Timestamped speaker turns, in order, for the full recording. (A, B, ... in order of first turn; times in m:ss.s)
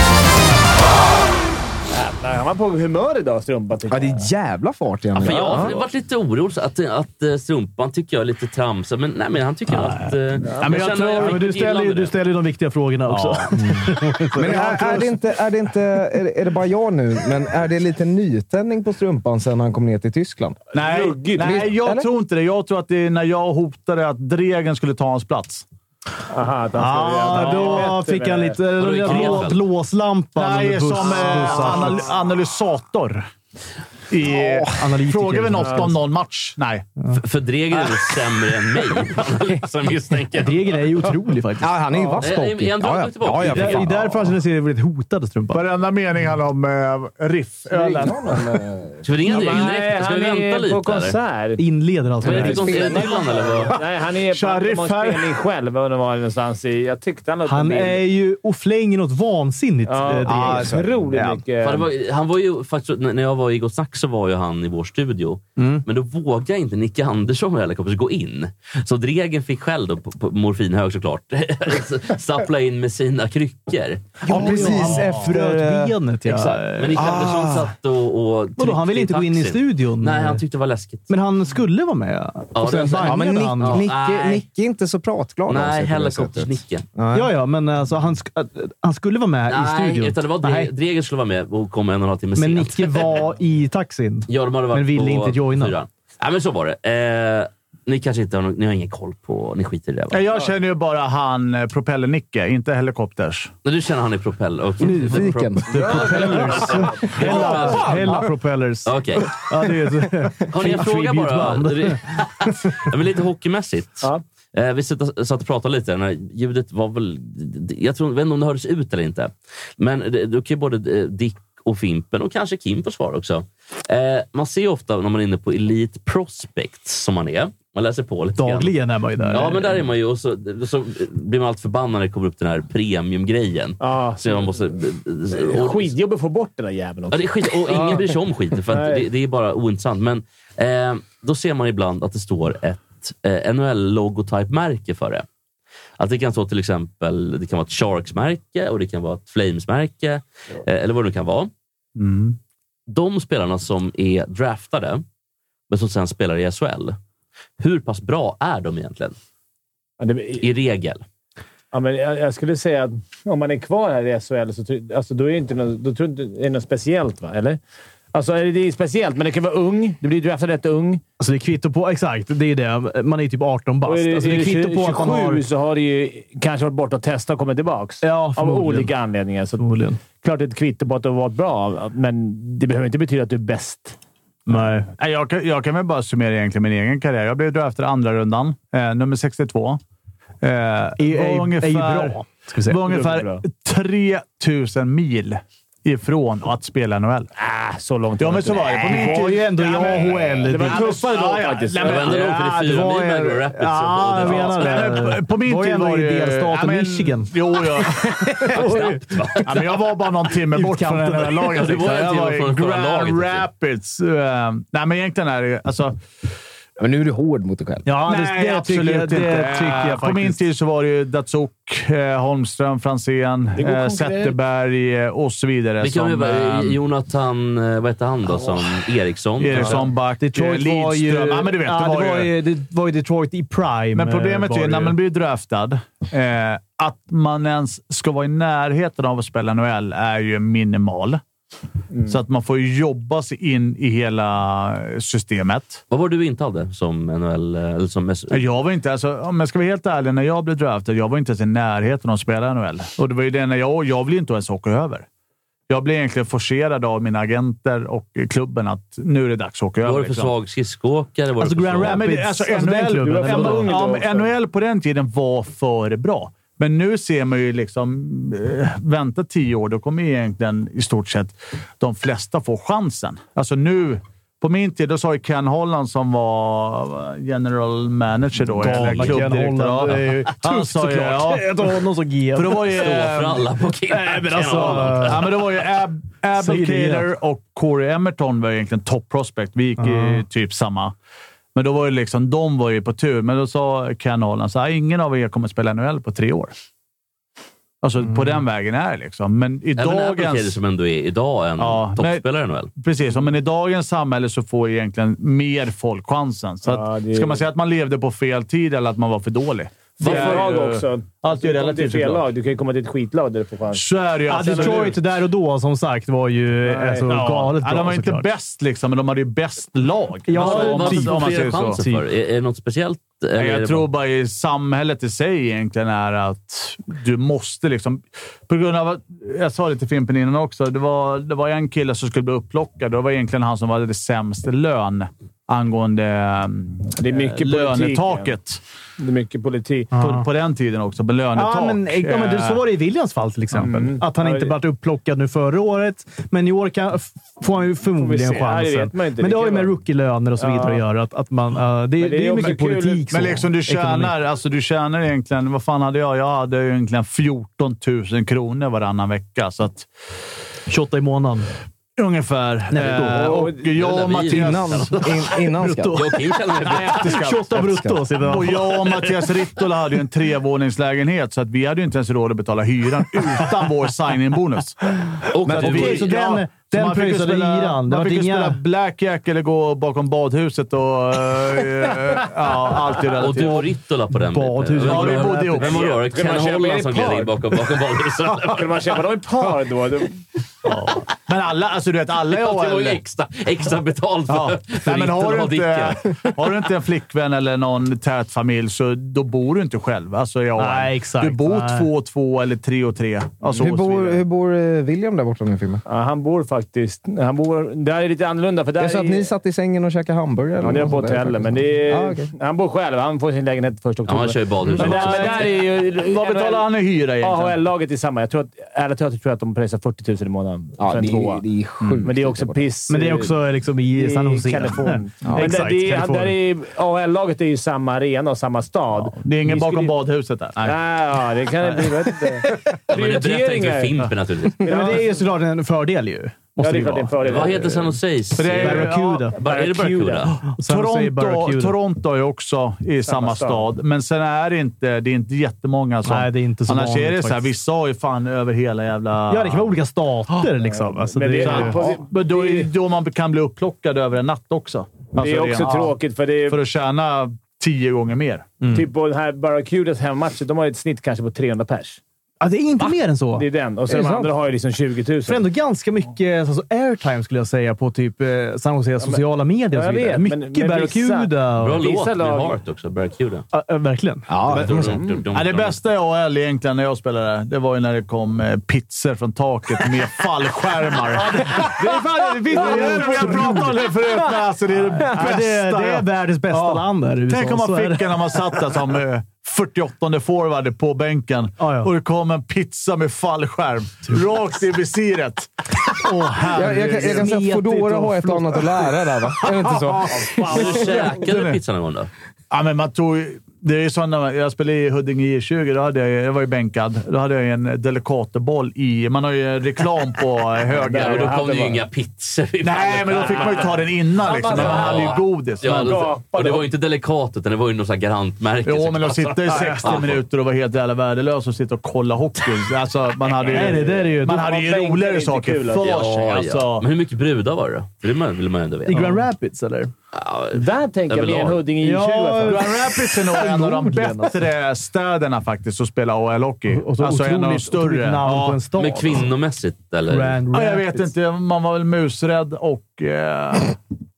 0:01.9-0:04.3 A
0:03.9-0:05.8 B
0:05.2-0:12.1 C
0:05.3-0:05.7 A
0:09.7-0:11.5 D
0:11.1-0:15.2 E
0:13.1-0:14.8 D
0:14.4-0:20.6 B
0:20.7-0:21.7 A
0:20.7-0:25.6 D
0:21.4-0:22.1 B
0:26.3-0:28.6 A
0:26.8-0:27.9 D
0:27.1-0:32.1 E
0:28.8-0:29.6 C
0:29.1-0:29.4 D
0:30.4-0:33.3 D
0:31.0-0:31.8 A
0:34.1-0:36.9 D
0:34.3-0:34.6 B
0:34.7-0:36.0 E
0:35.6-0:35.9 A
0:37.1-0:40.8 C
0:40.4-0:41.8 E
0:41.6-0:44.1 B
0:41.9-0:42.2 A
0:42.2-0:44.0 C
0:43.4-0:45.6 E
0:45.5-0:48.4 D
0:47.7-0:49.0 B
0:49.0-0:51.2 C
0:49.3-0:51.6 A
0:51.6-0:53.0 E
0:52.2-0:53.6 B
0:52.2-0:53.8 C
0:52.2-0:58.0 A
0:54.3-0:55.3 D
0:57.4-1:00.8 E
0:59.8-1:01.9 A
1:00.3-1:01.4 B
1:01.6-1:14.6 C
1:14.3-1:17.3 E
1:14.3-1:17.7 B
1:16.8-1:21.1 C
1:18.6-1:20.4 E
1:21.1-1:23.9 E
1:22.6-1:24.4 C
1:22.6-1:27.3 B
1:25.5-1:26.8 C
1:27.1-1:30.7 E
1:29.5-1:33.1 C
1:32.4-1:35.8 E
1:34.3-1:40.2 C
1:40.1-1:43.5 D
1:43.6-1:48.2 C
1:44.8-1:48.2 B
1:45.2-1:52.7 E
1:48.8-1:49.4 C
1:50.5-2:15.9 C
2:08.4-2:09.8 E
2:13.8-2:14.5 A
2:15.3-2:18.0 A
2:17.1-2:25.3 C
2:18.7-2:19.0 A
2:26.0-2:31.5 C
2:32.0-2:32.4 D
2:32.9-2:35.0 C
2:35.7-2:37.0 C
2:37.6-2:39.2 C
2:40.0-2:40.5 A
2:40.4-2:41.0 C
2:41.7-2:47.6 A
2:48.1-2:51.0 A
2:51.2-2:55.5 E
2:53.8-3:04.0 A
2:58.0-2:58.9 E
2:59.6-3:00.0 E
3:04.5-3:04.9 E
3:05.0-3:09.8 D
3:10.4-3:17.3 D
3:11.0-3:12.8 E
3:12.9-3:13.4 A
3:17.4-3:22.2 A
3:18.2-3:23.0 D
3:18.9-3:20.9 E
3:21.8-3:25.0 C
3:22.3-3:29.5 E
3:23.8-3:28.6 D
3:28.5-3:29.8 C
3:29.5-3:36.0 D
3:30.5-3:31.6 E
3:31.5-3:33.5 C
3:36.8-3:37.9 B
3:37.8-3:40.4 E
3:38.0-3:46.8 D
3:43.6-3:44.4 A
3:45.8-3:49.9 C
3:49.4-3:52.4 D
3:49.6-3:55.0 E
3:53.9-4:01.2 D
4:02.1-4:05.8 D
4:05.9-4:08.4 C
4:08.3-4:15.1 D
4:15.7-4:20.3 D
4:19.8-4:22.0 C
4:21.4-4:23.7 E
4:21.8-4:43.5 D
4:23.0-4:24.3 A
4:38.5-4:42.8 E
4:42.7-4:45.5 C
4:43.9-4:45.4 E
4:44.4-4:50.9 D
4:46.3-4:47.1 E
4:49.8-4:50.2 E
4:51.6-4:56.5 D
4:57.8-5:00.6 D
4:59.8-5:02.7 C
5:01.6-5:02.2 D
5:02.8-5:12.3 D
5:06.6-5:07.4 A
5:10.0-5:15.0 A
5:13.7-5:15.0 D
5:14.3-5:18.3 E
5:16.7-5:21.8 D
5:20.3-5:22.0 E
5:20.4-5:23.9 C
5:23.4-5:38.6 D
5:37.0-5:38.4 A
5:39.0-5:39.9 A
5:40.0-5:40.2 E
5:40.0-5:42.6 D
5:41.3-5:54.1 E
5:43.5-5:44.6 A
5:48.0-5:49.7 A
5:50.4-5:50.8 A
5:52.0-5:53.1 A
5:53.1-5:59.9 D
6:00.7-6:01.5 E
6:02.0-6:05.1 D
6:02.7-6:03.5 E
6:03.7-6:05.4 C
6:04.2-6:06.0 B
6:05.6-6:06.1 E
6:05.9-6:07.3 C
6:06.6-6:07.6 D
6:06.7-6:09.0 E
6:07.5-6:08.0 B
6:08.2-6:14.9 D
6:15.3-6:16.2 C
6:15.5-6:16.0 B
6:15.5-6:23.7 D
6:15.5-6:18.6 E
6:23.2-6:29.0 C
6:24.1-6:25.6 E
6:24.8-6:25.8 D
6:25.6-6:27.4 A
6:28.3-6:30.2 A
6:30.6-6:33.0 D
6:32.3-6:36.2 C
6:34.3-6:44.2 D
6:40.6-6:41.9 E
6:43.4-6:45.8 B
6:45.9-6:49.3 A
6:48.8-6:52.3 B
6:50.6-6:56.7 A
6:54.1-6:55.5 C
6:54.8-6:57.6 D
6:57.2-7:01.4 A
7:00.8-7:02.7 B
7:02.0-7:03.4 A
7:02.9-7:06.4 E
7:03.9-7:09.9 A
7:05.2-7:05.5 B
7:09.0-7:10.8 D
7:10.6-7:14.0 A
7:12.9-7:14.7 C
7:14.6-7:15.2 A
7:14.6-7:17.7 E
7:16.6-7:17.7 A
7:16.6-7:17.1 D
7:17.3-7:20.4 C
7:18.4-7:19.3 D
7:18.6-7:19.4 E
7:19.4-7:20.4 A
7:20.5-7:21.8 E
7:20.6-7:29.8 D
7:23.0-7:23.7 A
7:26.0-7:27.5 E
7:29.3-7:31.8 E
7:30.6-7:32.7 A
7:31.4-7:36.0 D
7:35.2-7:36.6 A
7:36.5-7:38.6 D
7:38.6-7:38.9 E
7:38.7-7:42.0 A
7:42.4-7:43.5 E
7:43.4-7:45.4 A
7:43.9-7:44.3 B
7:45.3-7:51.8 E
7:49.0-7:52.6 A
7:51.6-7:53.5 C
7:53.5-7:55.0 E
7:54.3-7:55.0 B
7:54.5-7:55.8 C
7:55.3-8:01.8 D
8:01.2-8:03.5 A
8:01.4-8:08.7 E
8:02.5-8:17.3 D
8:11.6-8:11.9 E
8:16.0-8:18.9 E
8:16.6-8:20.5 B
8:19.4-8:21.6 D
8:20.1-8:21.0 A
8:20.5-8:22.1 C
8:22.5-8:31.4 D
8:30.9-8:31.8 A
8:30.9-8:33.9 C
8:32.6-8:36.1 D
8:34.2-8:36.7 A
8:34.4-8:40.2 C
8:38.6-8:46.8 D
8:43.5-8:44.5 E
8:43.5-8:45.9 A
8:45.8-8:49.2 C
8:48.9-8:49.9 E
8:50.1-8:51.6 C
8:50.5-8:52.7 A
8:51.8-8:54.4 E
8:52.4-8:58.6 D
8:56.7-8:59.3 E
8:58.8-9:00.4 C
9:00.1-9:01.1 E
9:00.5-9:03.8 D